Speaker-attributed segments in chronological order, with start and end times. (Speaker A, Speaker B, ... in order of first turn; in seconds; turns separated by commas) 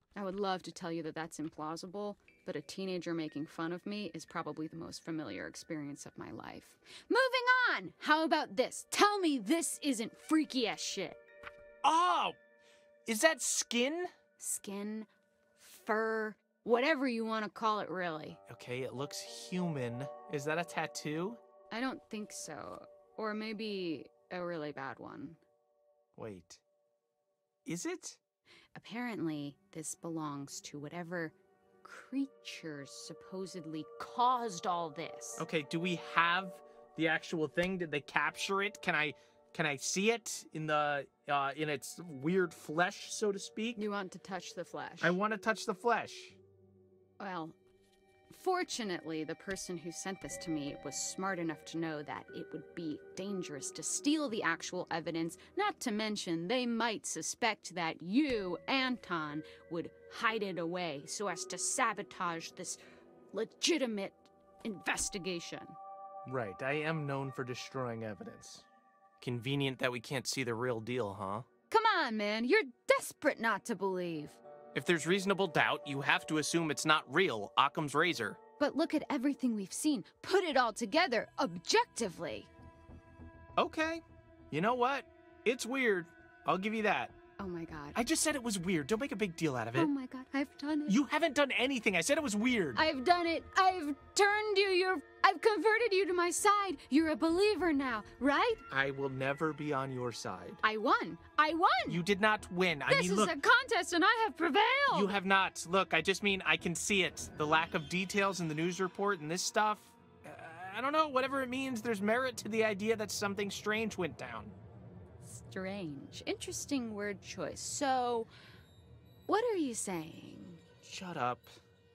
Speaker A: 0.1-11.2, Speaker B: 11.8-12.4, Speaker B: 13.1-14.1, Speaker A: 14.4-18.4, Speaker B: 18.5-21.4, Speaker A: 21.7-25.4, Speaker B: 26.2-26.6, Speaker B: 27.7-28.2, Speaker A: 28.8-35.5, Speaker B: 35.4-43.8, Speaker A: 43.8-45.2, Speaker B: 45.0-46.4, Speaker A: 47.2-47.6, Speaker A: 48.3-62.8, Speaker A: 63.3-65.8, Speaker B: 66.3-68.6, Speaker B: 69.2-71.5, Speaker A: 71.7-74.4, Speaker B: 74.7-78.4, Speaker A: 78.6-82.5, Speaker B: 83.6-87.1, Speaker A: 87.4-88.0, Speaker B: 88.0-89.9, Speaker A: 89.8-91.0, Speaker B: 90.9-92.8, Speaker A: 92.8-98.6, Speaker B: 98.7-100.6, Speaker A: 100.6-102.0, Speaker B: 101.9-103.3, Speaker A: 102.9-105.2, Speaker B: 104.9-114.6, Speaker A: 115.2-118.3, Speaker A: 119.3-120.6, Speaker B: 120.8-121.5